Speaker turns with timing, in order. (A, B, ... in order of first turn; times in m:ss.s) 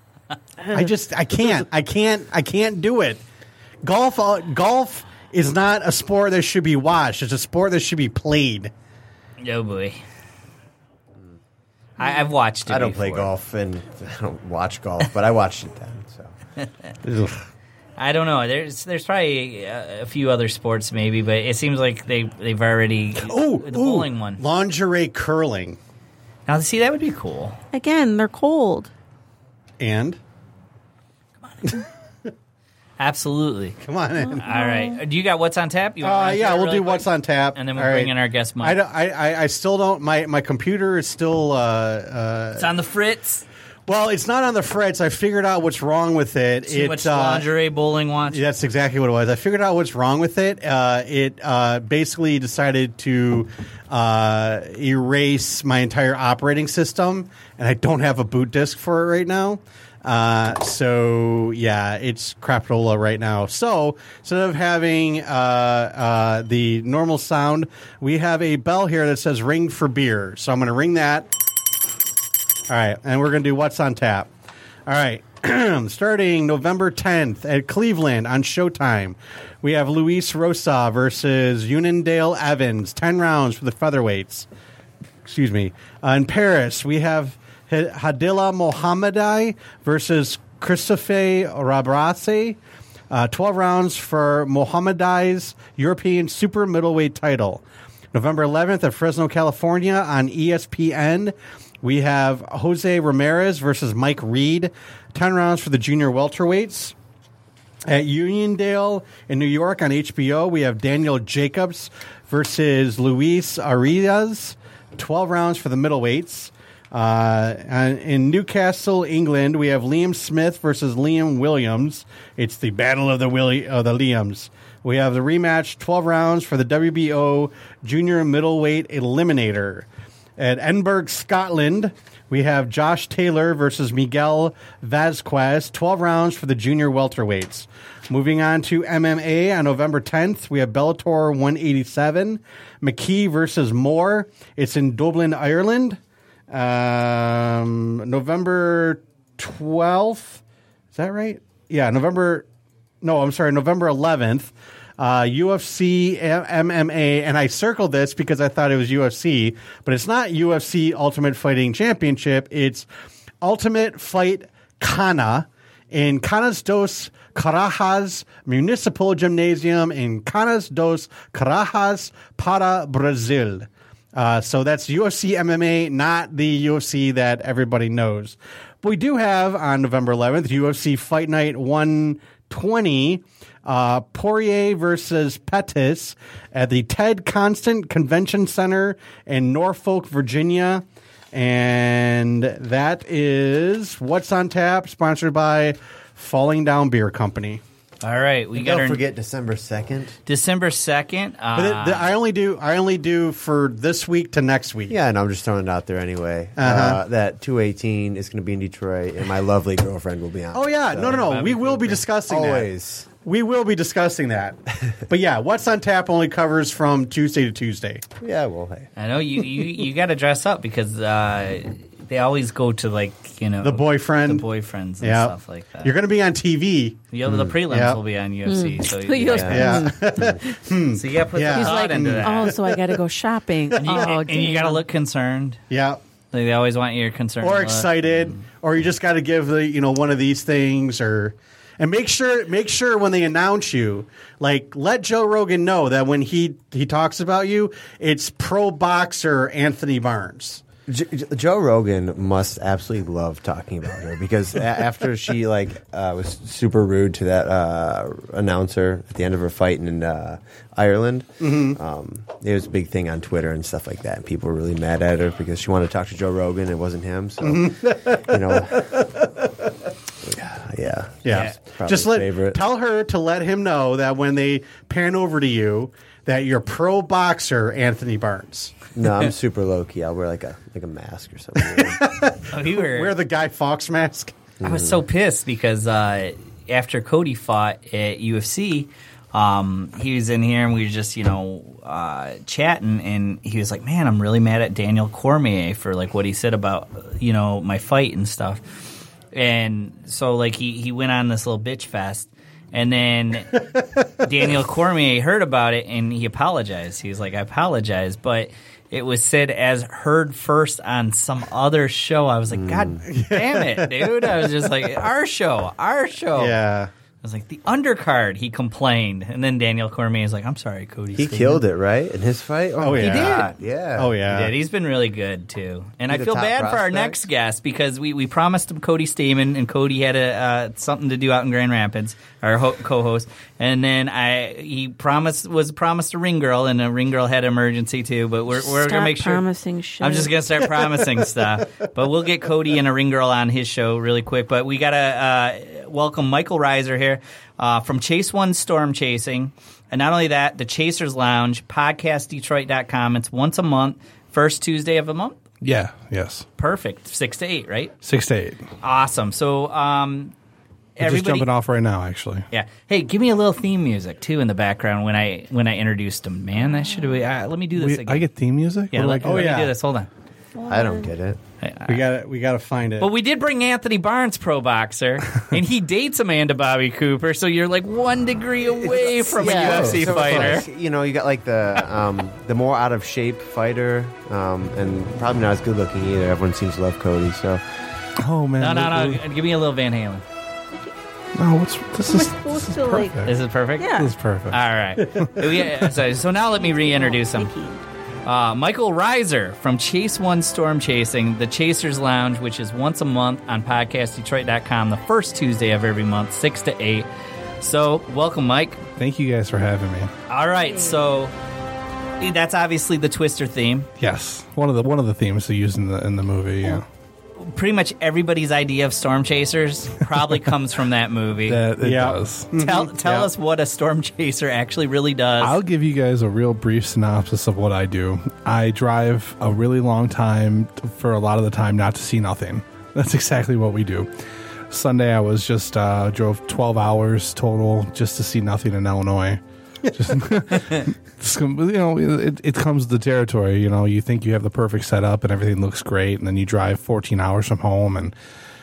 0:00.7-0:03.2 A
0:03.8-0:08.7 A
0:09.4-0:10.0 B
0:12.0-0:13.3 B
0:12.7-0:16.3 C
0:17.0-0:17.4 A
0:18.0-0:24.4 B
0:23.2-0:25.8 A
0:26.5-0:27.6 B
0:27.7-0:28.9 D
0:29.8-0:30.2 A
0:33.0-0:33.8 B
0:33.8-0:34.5 A
0:34.3-0:35.0 D
0:34.4-0:38.8 B
0:36.0-0:42.7 A
0:42.6-0:43.4 B
0:43.9-0:47.5 A
0:46.7-0:48.4 B
0:48.3-1:11.3 A
1:12.7-1:14.3 A
1:14.9-1:24.5 A
1:25.2-1:32.6 A
1:33.1-1:47.0 A
1:47.9-2:09.9 A
2:10.4-2:26.0 A
2:26.5-2:30.4 A
2:31.0-2:32.4 A
2:33.0-2:42.9 A
2:43.4-3:17.6 A
3:18.0-3:19.0 B
3:18.5-3:20.2 C
3:20.3-3:22.1 B
3:21.6-3:25.0 A
3:24.9-3:31.3 C
3:26.6-3:27.0 A
3:30.5-3:32.7 A
3:31.0-3:32.0 B
3:32.3-3:33.1 C
3:33.2-3:34.6 A
3:35.1-3:38.0 A
3:38.2-3:38.9 C
3:39.0-3:45.9 B
3:43.6-3:44.5 A
3:45.0-3:47.1 A
3:47.1-3:49.8 B
3:47.3-3:47.6 C
3:47.7-3:48.0 A
3:48.5-3:50.6 D
3:49.3-3:50.4 C
3:49.5-3:53.0 A
3:50.9-3:52.6 B
3:51.5-3:54.8 D
3:53.7-3:54.2 A
3:53.8-3:55.6 B
3:55.7-3:56.0 A
3:56.3-3:58.4 B
3:57.4-4:10.6 A
4:10.9-4:29.1 C
4:21.4-4:21.8 A
4:27.4-4:29.3 A
4:30.2-4:32.6 C
4:31.2-4:38.8 A
4:31.3-4:31.6 B
4:39.0-4:42.1 C
4:41.6-4:44.4 A
4:42.5-4:43.2 B
4:44.6-4:45.0 C
4:44.6-5:16.6 B
5:12.5-5:13.0 C
5:13.1-5:14.5 A
5:16.4-5:16.9 A
5:17.2-5:21.6 B
5:21.1-5:24.2 C
5:22.8-5:24.5 A
5:23.0-5:23.5 B
5:24.3-5:39.4 B
5:26.1-5:27.2 C
5:38.5-5:40.4 D
5:40.0-5:55.4 B
5:55.6-5:56.5 E
5:56.6-5:57.9 B
5:58.0-5:58.6 E
5:58.8-6:00.3 B
6:01.0-6:01.5 B
6:01.0-6:02.5 E
6:02.5-6:08.3 B
6:06.8-6:07.2 D
6:07.8-6:09.5 E
6:08.9-6:10.1 B
6:09.2-6:09.8 A
6:10.6-6:11.1 D
6:10.6-6:11.4 C
6:11.6-6:12.0 B
6:11.9-6:13.1 A
6:13.0-6:20.7 B
6:18.8-6:27.6 C
6:19.6-6:20.4 E
6:28.2-6:29.2 E
6:28.6-6:30.2 B
6:31.4-6:33.4 E
6:32.0-6:33.2 D
6:33.3-6:33.9 B
6:33.8-6:34.2 D
6:33.9-6:34.6 E
6:34.5-6:37.5 B
6:35.0-6:35.6 A
6:36.5-6:37.8 D
6:38.3-6:47.1 B
6:47.6-6:48.8 B
6:49.0-6:50.1 E
6:50.3-6:51.3 B
6:50.6-6:51.0 D
6:52.2-6:53.9 B
6:54.0-6:56.8 E
6:57.4-7:01.6 B
7:01.4-7:02.5 E
7:01.8-7:03.3 A
7:02.6-7:05.6 B
7:05.4-7:14.1 E
7:14.7-7:19.4 E
7:19.9-7:28.1 E